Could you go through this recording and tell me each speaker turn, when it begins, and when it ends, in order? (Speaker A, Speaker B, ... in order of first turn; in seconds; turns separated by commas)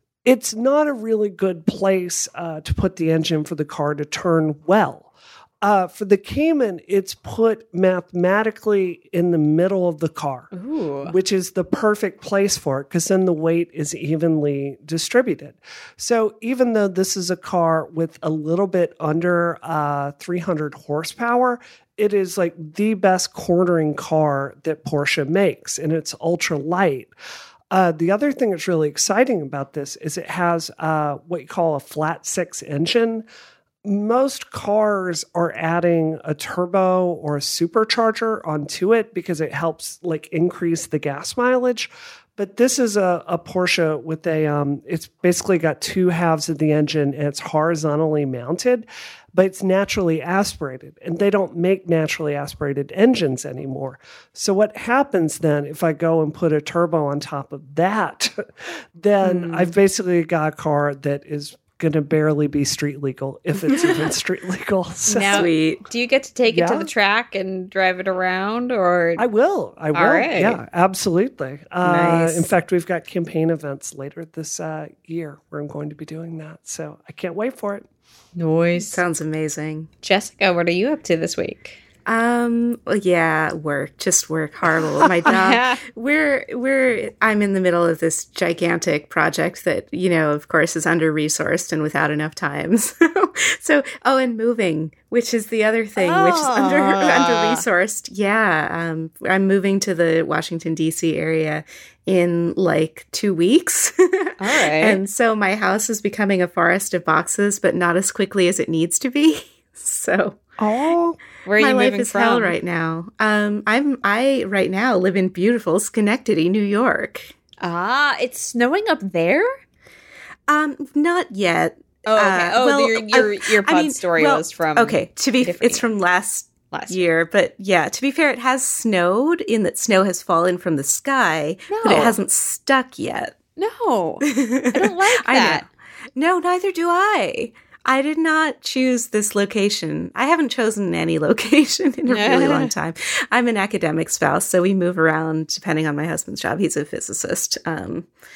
Speaker A: 0.2-10.5, Speaker B: 10.5-11.1, Speaker A: 11.0-27.1, Speaker A: 27.7-33.3, Speaker A: 33.8-58.5, Speaker A: 59.0-65.5, Speaker B: 59.2-59.8, Speaker B: 65.1-69.2, Speaker C: 65.3-65.8, Speaker A: 66.5-66.9, Speaker A: 69.2-77.9, Speaker B: 69.9-70.6, Speaker C: 71.8-72.5, Speaker B: 78.4-79.0, Speaker C: 78.8-79.9, Speaker B: 80.0-81.8, Speaker C: 82.1-110.4, Speaker B: 85.3-85.8, Speaker B: 96.0-97.6, Speaker B: 104.4-105.0, Speaker A: 110.6-111.2, Speaker B: 111.5-112.6, Speaker C: 111.6-117.3, Speaker B: 117.6-119.5, Speaker C: 120.5-133.4, Speaker B: 122.1-125.8, Speaker B: 126.7-127.0, Speaker B: 131.7-132.2, Speaker B: 133.6-135.6, Speaker C: 134.2-148.1, Speaker B: 142.1-142.7